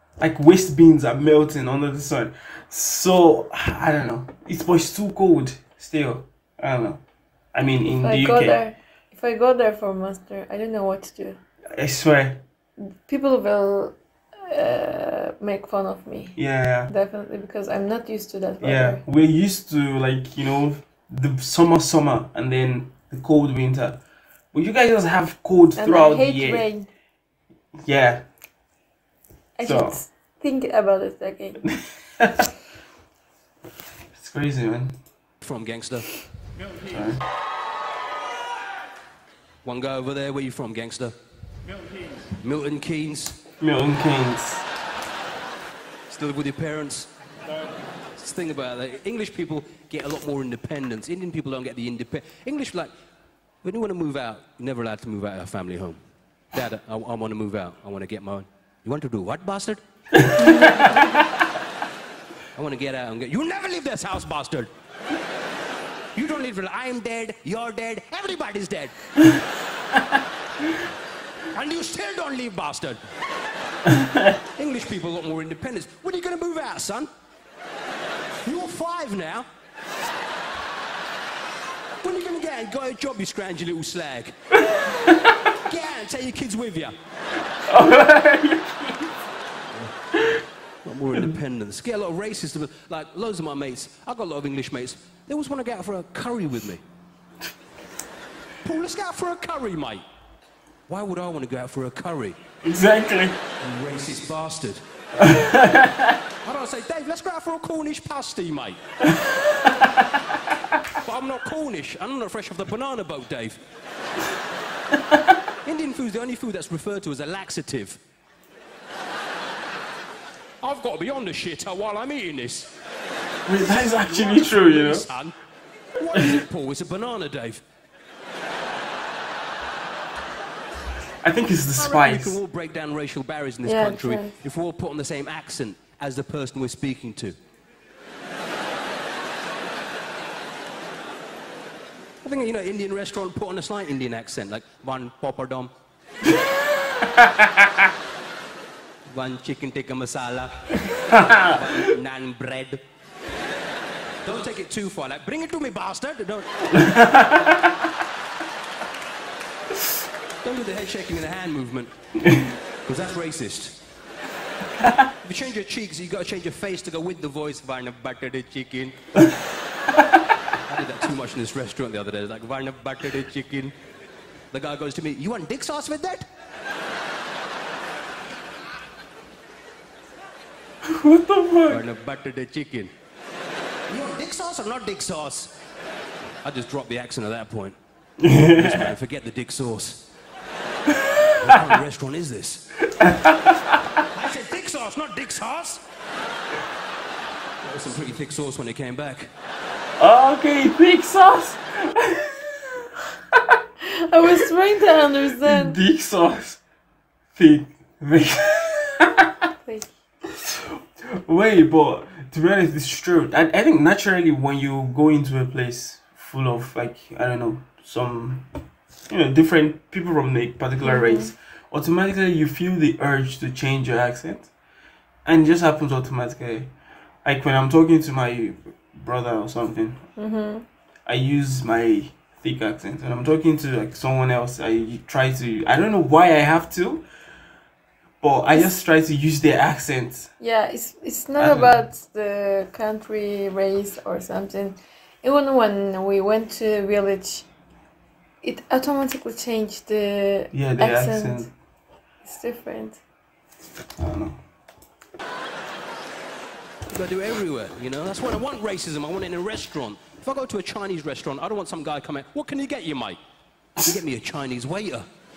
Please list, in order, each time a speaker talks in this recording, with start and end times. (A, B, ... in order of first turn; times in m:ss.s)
0:00.2-0:07.0 A
0:07.5-0:08.6 A
0:08.0-0:11.4 B
0:11.8-0:12.4 A
0:12.8-0:16.4 B
0:16.4-0:16.9 A
0:16.9-0:19.0 B
0:18.6-0:24.0 A
0:24.5-0:26.7 A
0:25.8-0:26.9 B
0:27.8-0:28.2 A
0:29.6-0:31.6 B
0:29.6-0:30.0 A
0:31.7-0:32.5 A
0:34.2-0:35.0 A
0:35.4-0:36.1 C
0:36.8-0:37.2 A
0:39.6-0:41.1 C
0:42.3-0:43.4 C
0:43.6-0:44.6 A
0:46.1-0:47.1 C
0:48.2-0:52.9 C
0:53.6-0:56.0 C
0:56.5-0:59.8 C
1:00.2-1:01.3 A
1:00.4-1:01.2 B
1:02.6-1:04.7 C
1:06.2-1:08.9 C
1:11.5-1:13.0 C
1:13.9-1:14.3 A
1:14.6-1:17.1 C
1:18.4-1:19.5 C
1:22.0-1:24.4 C
1:24.7-1:25.4 A
1:25.5-1:26.9 C
1:27.7-1:29.0 A
1:30.8-1:36.8 C
1:38.6-1:40.0 C
1:40.9-1:42.4 C
1:42.6-1:43.4 A
1:43.6-1:44.8 C
1:45.2-1:46.2 A
1:46.4-1:48.8 C
1:49.1-1:50.1 A
1:51.0-1:53.6 C
1:55.6-1:58.0 C
2:00.6-2:02.7 C
2:03.5-2:05.1 A
2:03.6-2:05.4 C
2:06.0-2:07.6 C
2:11.2-2:12.4 A
2:11.8-2:17.4 C
2:13.6-2:14.3 B
2:22.2-2:25.7 C
2:27.0-2:27.7 A
2:29.1-2:32.8 C
2:30.9-2:31.9 A
2:34.2-2:36.8 C
2:36.7-2:37.6 A
2:40.4-2:41.9 C
2:42.2-2:42.5 A
2:42.9-2:43.8 C
2:45.2-2:49.0 C
2:50.6-2:53.7 C
2:54.5-2:56.2 C
3:00.8-3:01.8 A
3:01.7-3:02.9 C
3:03.9-3:05.5 C
3:06.4-3:07.8 C
3:08.2-3:08.9 A
3:08.4-3:10.1 C
3:11.1-3:11.6 A
3:11.3-3:12.8 C
3:12.9-3:13.8 A
3:14.1-3:15.8 C
3:17.6-3:19.3 C
3:20.0-3:22.9 A
3:23.8-3:25.8 B
3:25.2-3:26.6 A
3:27.4-3:29.3 A
3:29.6-3:29.9 B
3:31.2-3:38.5 A
3:39.1-3:44.5 A
3:40.8-3:41.3 B
3:45.3-3:46.7 A
3:47.2-3:50.0 A
3:50.2-3:50.6 B
3:51.1-3:57.1 A
3:58.2-4:00.3 A
4:00.4-4:07.5 B
4:01.4-4:01.8 A
4:08.4-4:11.5 B
4:10.5-4:11.5 A
4:12.2-4:13.0 B
4:14.0-4:14.4 A
4:16.9-4:23.2 C
4:23.8-4:25.1 C